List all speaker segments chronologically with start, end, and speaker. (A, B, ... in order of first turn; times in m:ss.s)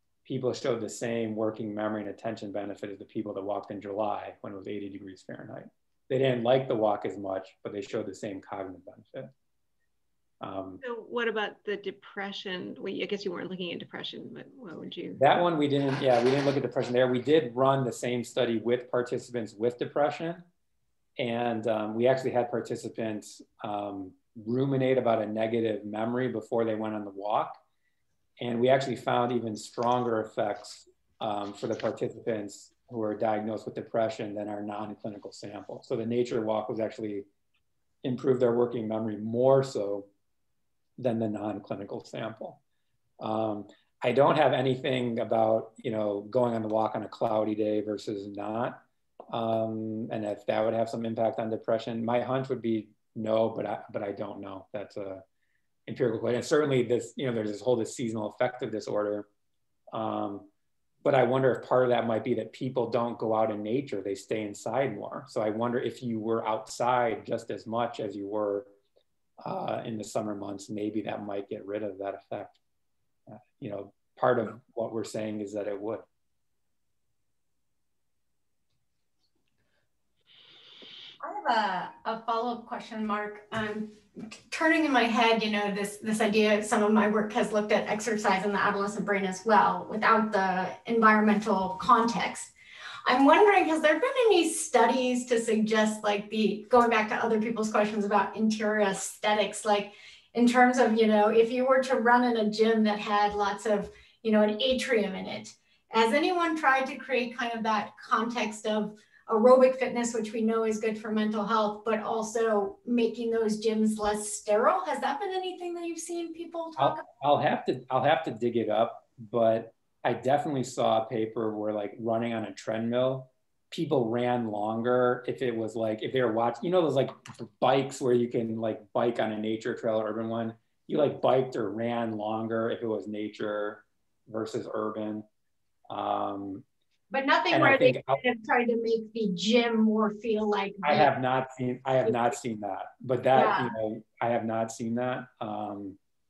0:00.2-0:09.3 A
0:10.4-0:10.8 A
0:10.8-0:15.2 B
0:15.2-0:20.4 A
0:21.2-0:27.6 A
0:28.4-0:37.3 A
0:38.0-0:40.1 A
0:41.0-0:42.6 A
0:43.2-0:55.2 A
0:55.9-0:59.3 A
0:59.9-1:00.5 A
1:01.0-1:08.7 A
1:09.4-1:12.6 A
1:13.3-1:16.1 A
1:21.2-1:32.5 C
1:33.0-1:57.1 C
1:56.8-2:15.2 A
2:15.9-2:16.6 A
2:17.1-2:21.1 C
2:17.5-2:18.2 A
2:20.8-2:26.0 A
2:23.3-2:23.8 C